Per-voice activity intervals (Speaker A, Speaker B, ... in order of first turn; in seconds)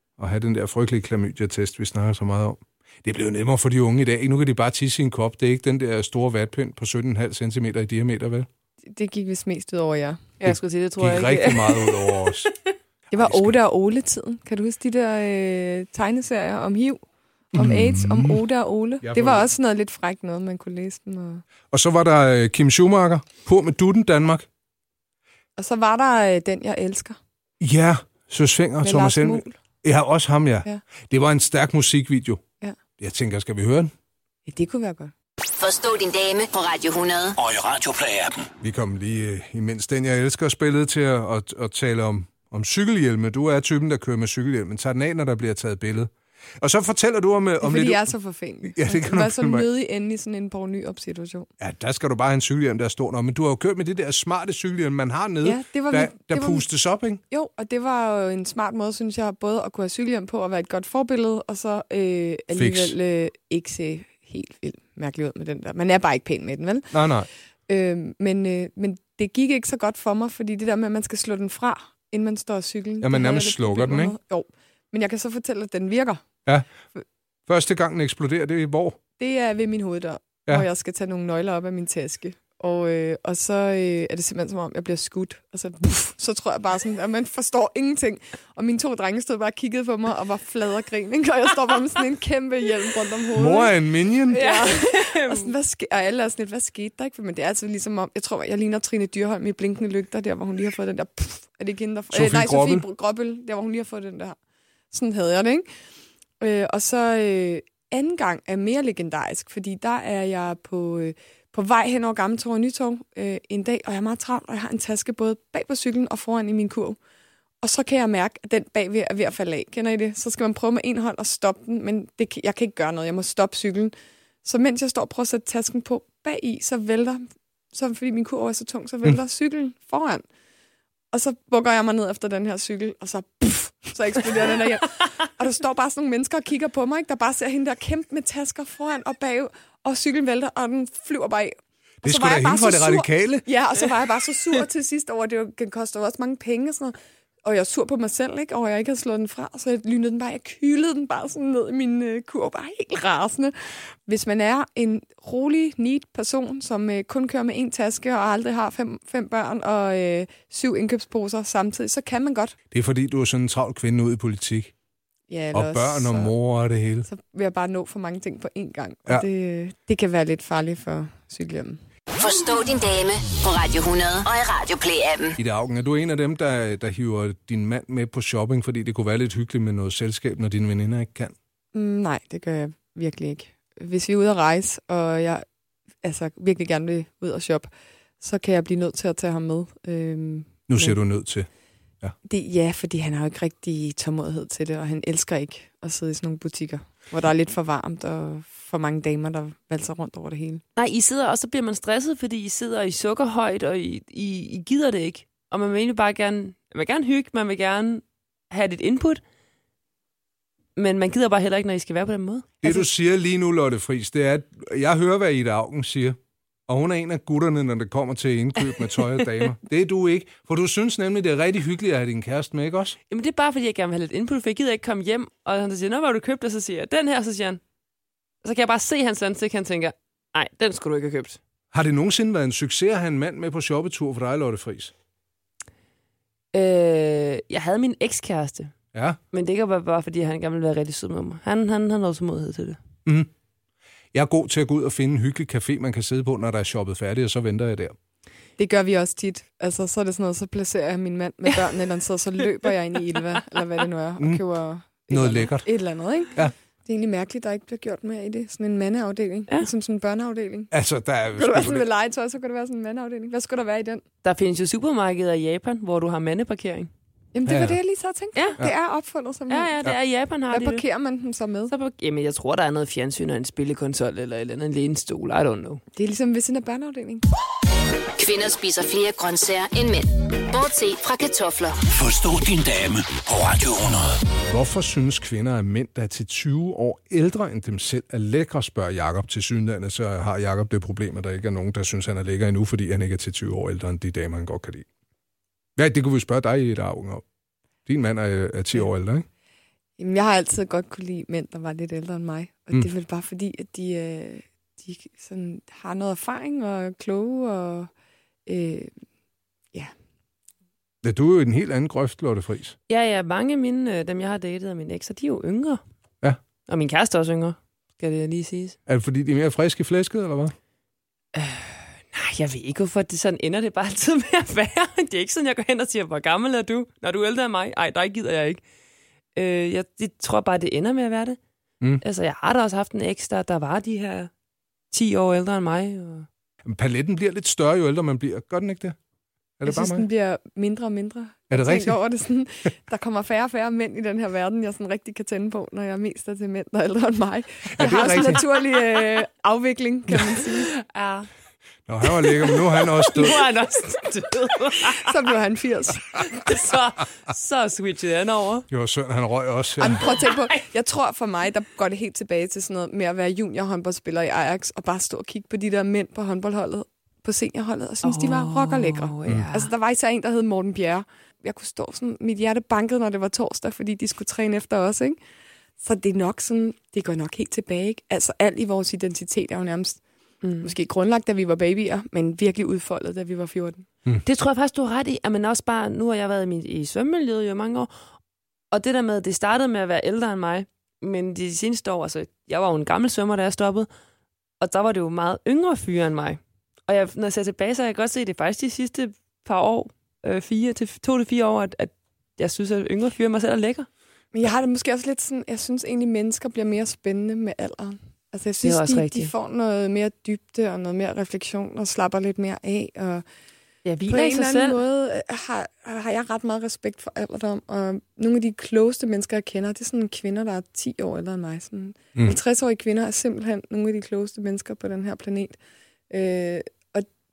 Speaker A: 0.2-8.5, 10.4-12.5, 13.1-13.6, 17.5-18.4, 19.0-19.4, 21.7-24.5, 27.6-32.4, 33.0-33.9, 38.6-48.1, 48.8-49.7, 51.6-57.2, 62.5-63.0, 66.9-67.3, 73.0-74.2, 77.5-79.0, 93.4-94.4, 102.1-102.8, 142.0-143.5, 162.7-164.7, 165.5-167.1, 175.4-181.3, 190.7-191.5, 212.6-216.2, 216.7-223.0, 231.7-234.9, 238.9-239.2, 243.1-243.3, 244.1-248.0, 255.1-255.7, 260.7-261.9, 267.5-267.8, 284.5-294.9, 295.8-297.2, 297.9-299.2, 311.0-312.8, 318.9-320.5, 336.6-339.0, 339.6-340.1, 341.5-342.0, 347.7-348.4, 351.9-353.5, 358.7-360.1
Speaker B: 8.9-10.3, 13.1-17.0, 17.5-21.4, 25.6-27.2, 28.8-29.6, 34.5-35.1, 47.6-51.5, 55.4-56.7, 57.3-66.9, 67.7-76.2, 79.2-93.8, 94.3-104.4, 104.9-105.7, 106.4-117.0, 117.6-130.2, 131.1-153.5, 154.1-162.6, 165.3-166.3, 167.1-171.8, 181.7-185.4, 186.0-191.0, 192.2-200.6, 248.6-260.7, 261.4-264.0, 267.3-269.8, 270.5-271.7, 275.9-277.2, 300.0-307.9, 308.5-308.9, 339.7-350.7, 354.9-356.4, 359.8-375.2, 375.8-380.0, 380.6-383.9, 404.3-413.2, 414.1-427.1
Speaker C: 10.4-12.5, 94.3-95.5, 200.8-209.2, 210.8-212.9, 223.1-227.6, 228.4-231.4, 236.5-238.7, 239.3-242.8, 264.2-266.9, 269.5-270.8, 271.7-275.8, 312.9-315.8, 316.7-318.8, 321.4-328.6, 329.4-331.4, 332.0-334.3, 334.9-336.3, 350.4-351.3, 352.0-355.1, 356.2-358.7, 360.1-360.5, 368.0-369.7, 380.4-380.7, 384.2-387.9, 388.7-393.9, 394.6-403.9, 408.6-409.3, 413.9-414.8
Speaker D: 35.6-37.4, 172.2-175.4, 278.2-281.8
Speaker E: 37.4-38.5, 281.9-284.2